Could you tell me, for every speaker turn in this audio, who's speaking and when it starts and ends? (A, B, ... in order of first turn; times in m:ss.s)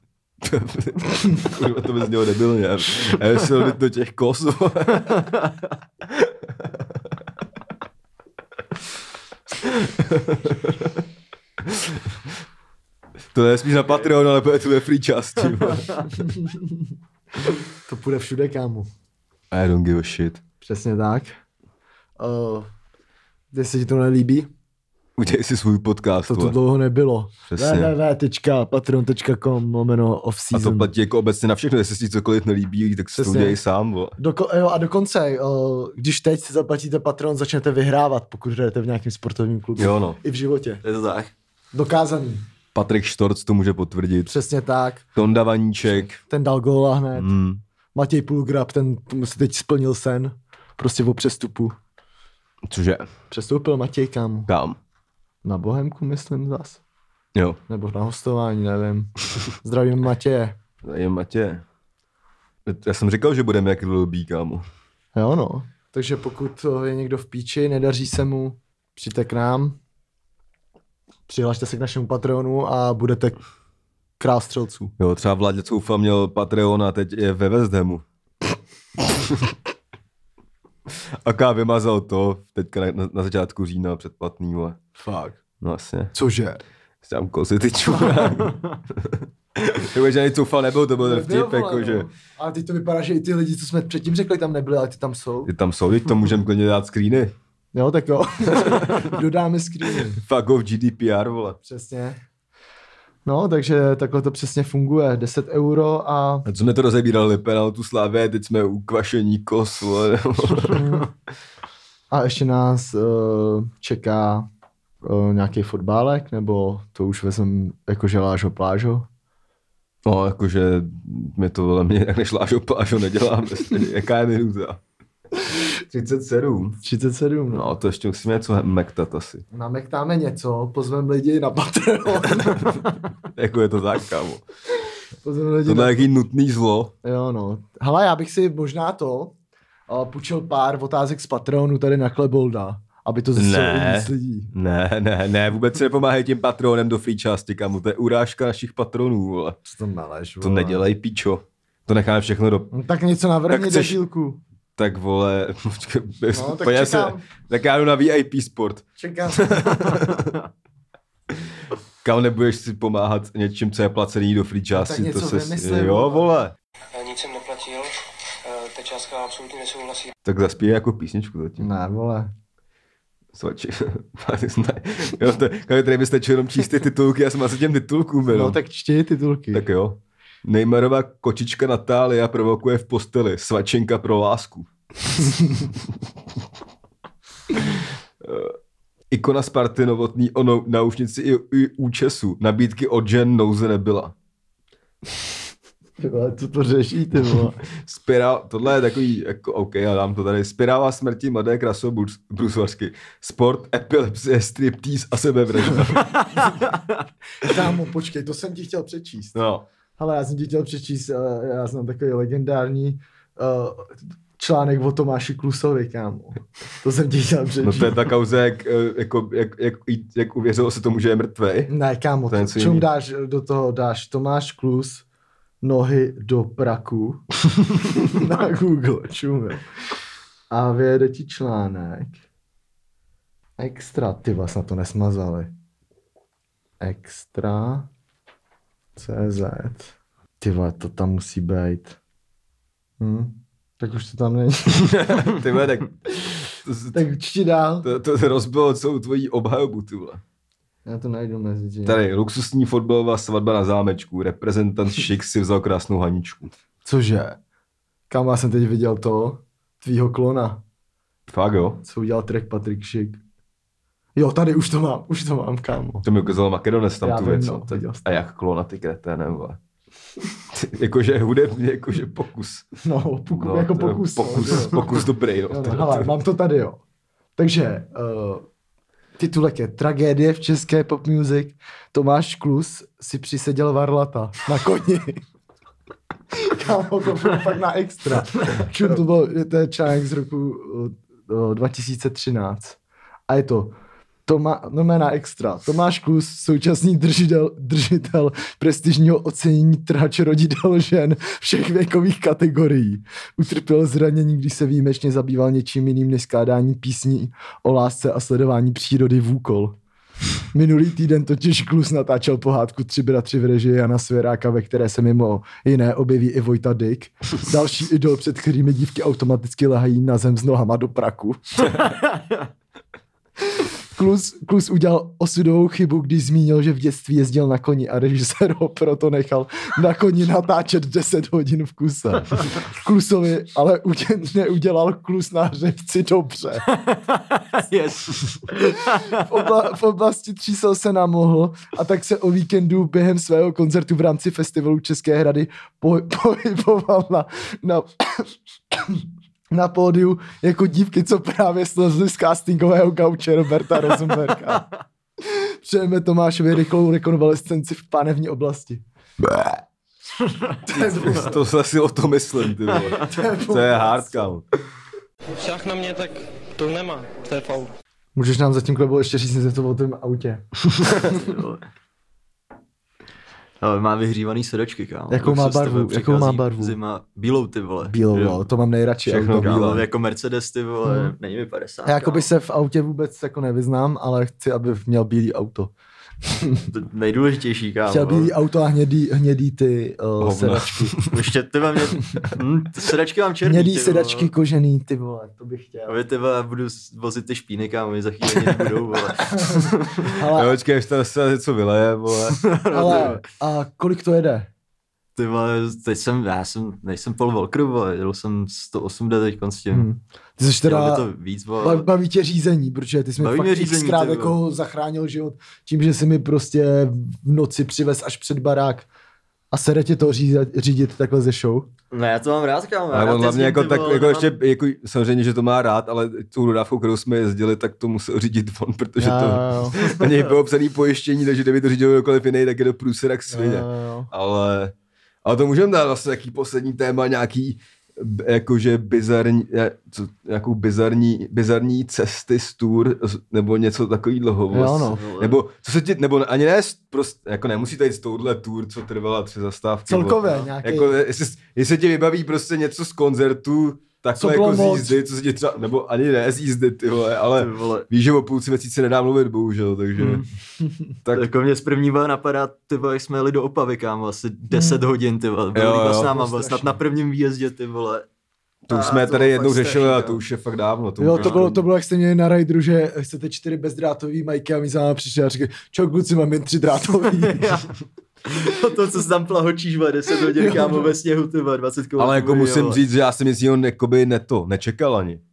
0:00.4-0:05.3 A
0:06.0-0:07.1 A
0:09.6-0:11.0 A
0:11.6-0:12.3 A
0:13.3-0:16.3 A
0:16.2-0:16.9 B
0:17.5-0:18.9 B
0:19.5-0:20.4 A
0:20.6-0:21.4 B
0:22.2-0:22.7 B
0:23.5-0:24.5 B
0:25.2-0:26.6 A
0:26.3-0:30.9 B
0:27.5-0:27.9 A
0:30.5-0:34.2 A
0:33.1-0:33.6 B
0:34.2-0:40.8 B
0:39.8-0:40.2 A
0:40.8-0:41.3 C
0:41.7-0:42.4 B
0:42.7-0:44.3 A
0:44.2-0:45.0 B
0:45.2-0:46.2 A
0:45.8-0:47.3 B
0:47.1-0:47.6 A
0:47.9-0:51.7 B
0:52.7-0:53.1 A
0:53.3-0:54.5 B
0:54.5-0:54.8 A
0:55.4-0:56.8 B
0:57.3-0:57.6 A
0:57.7-1:00.6 B
1:00.8-1:01.6 A
1:02.6-1:04.6 A
1:05.1-1:09.8 B
1:11.3-1:13.4 B
1:14.2-1:14.9 B
1:15.0-1:18.0 A
1:19.0-1:19.5 A
1:20.9-1:24.8 A
1:25.0-1:25.4 B
1:25.6-1:26.1 A
1:26.1-1:26.6 B
1:27.0-1:32.1 A
1:31.0-1:35.5 B
1:35.4-1:37.3 A
1:37.7-1:40.2 B
1:38.6-1:39.1 A
1:40.2-1:41.6 A
1:41.6-1:42.2 B
1:43.2-1:46.4 B
1:46.4-1:51.0 A
1:50.7-1:51.0 B
1:52.1-1:54.5 B
1:55.0-1:59.1 B
2:00.0-2:04.8 A
2:05.9-2:06.8 A
2:06.8-2:07.7 B
2:07.5-2:09.4 A
2:09.5-2:12.8 B
2:12.4-2:12.7 A
2:13.3-2:14.4 A
2:15.2-2:16.1 B
2:15.6-2:16.9 A
2:17.0-2:19.3 B
2:19.9-2:24.5 B
2:23.3-2:29.6 A
2:29.6-2:30.8 B
2:30.4-2:32.7 A
2:32.7-2:34.4 B
2:33.5-2:34.0 A
2:34.8-2:40.4 A
2:36.3-2:37.2 B
2:39.0-2:39.9 B
2:42.0-2:46.5 A
2:44.7-2:46.3 B
2:46.9-2:50.1 D
2:50.2-2:51.7 A
2:51.6-2:52.3 B
2:53.3-2:58.6 A
2:58.3-2:59.6 B
2:59.5-3:04.7 A
3:07.6-3:08.5 A
3:09.1-3:14.1 A
3:16.0-3:17.6 B
3:17.7-3:26.4 A
3:27.4-3:29.4 B
3:29.3-3:29.6 A
3:30.0-3:38.0 B
3:37.6-3:41.7 A
3:41.7-3:45.0 B
3:42.3-3:42.9 A
3:45.6-3:47.2 B
3:47.9-3:49.6 B
3:50.5-3:52.2 B
3:53.6-3:55.5 B
3:56.8-3:57.9 B
3:59.0-4:02.0 B
4:03.0-4:04.9 B
4:04.7-4:07.0 A
4:06.9-4:07.9 B
4:07.8-4:10.2 A
4:10.8-4:12.0 B
4:11.8-4:16.5 A
4:16.8-4:17.4 B
4:18.1-4:20.6 B
4:21.3-4:21.8 A
4:21.8-4:23.2 B
4:24.2-4:26.0 B
4:26.0-4:29.6 A
4:27.0-4:28.0 B
4:30.5-4:32.7 A
4:32.8-4:36.8 B
4:33.3-4:36.1 A
4:37.4-4:38.4 B
4:39.2-4:45.2 B
4:46.3-5:09.7 B
5:10.5-5:21.7 B
5:21.8-5:22.4 C
5:23.5-5:36.7 B
5:36.7-5:39.2 C
5:38.5-5:54.6 B
5:55.2-5:58.8 B
5:59.2-5:59.5 A
6:00.6-6:01.4 B
6:00.7-6:04.4 A
6:02.8-6:03.1 C
6:03.0-6:04.3 B
6:05.3-6:07.7 D
6:08.1-6:10.4 B
6:10.8-6:11.6 C
6:13.6-6:18.4 C
6:15.1-6:16.7 B
6:17.9-6:19.6 B
6:19.0-6:19.8 A
6:19.4-6:22.3 C
6:20.8-6:21.1 B
6:21.8-6:25.7 B
6:26.3-6:26.6 B
6:26.7-6:28.3 C
6:27.9-6:31.0 B
6:30.2-6:31.2 A
6:31.1-6:34.3 C
6:33.4-6:35.9 B
6:35.9-6:40.1 C
6:39.2-6:40.6 B
6:40.3-6:42.4 A
6:42.3-6:43.2 C
6:42.7-6:44.5 B
6:45.2-6:49.9 C
6:49.7-6:51.1 B
6:50.7-6:51.9 C
6:51.6-6:58.9 B
6:53.2-6:54.4 C
6:59.5-7:01.7 B
7:01.9-7:04.3 C
7:02.9-7:14.7 A
7:09.0-7:09.9 B
7:13.3-7:14.1 B
7:15.2-7:40.2 A
7:24.5-7:25.0 B
7:24.8-7:25.4 C
7:29.9-7:30.9 B
7:34.2-7:35.0 B
7:37.4-7:37.9 C
7:40.0-7:40.2 C
7:41.1-7:48.0 C
7:44.5-7:44.8 B
7:45.5-7:46.1 A
7:46.0-7:46.7 B
7:48.7-7:51.6 A
7:48.7-7:50.2 C
7:51.0-7:57.6 B
7:51.1-7:51.4 C
7:57.1-7:57.7 C
7:58.2-8:02.8 C
8:00.3-8:00.8 B
8:02.0-8:05.2 A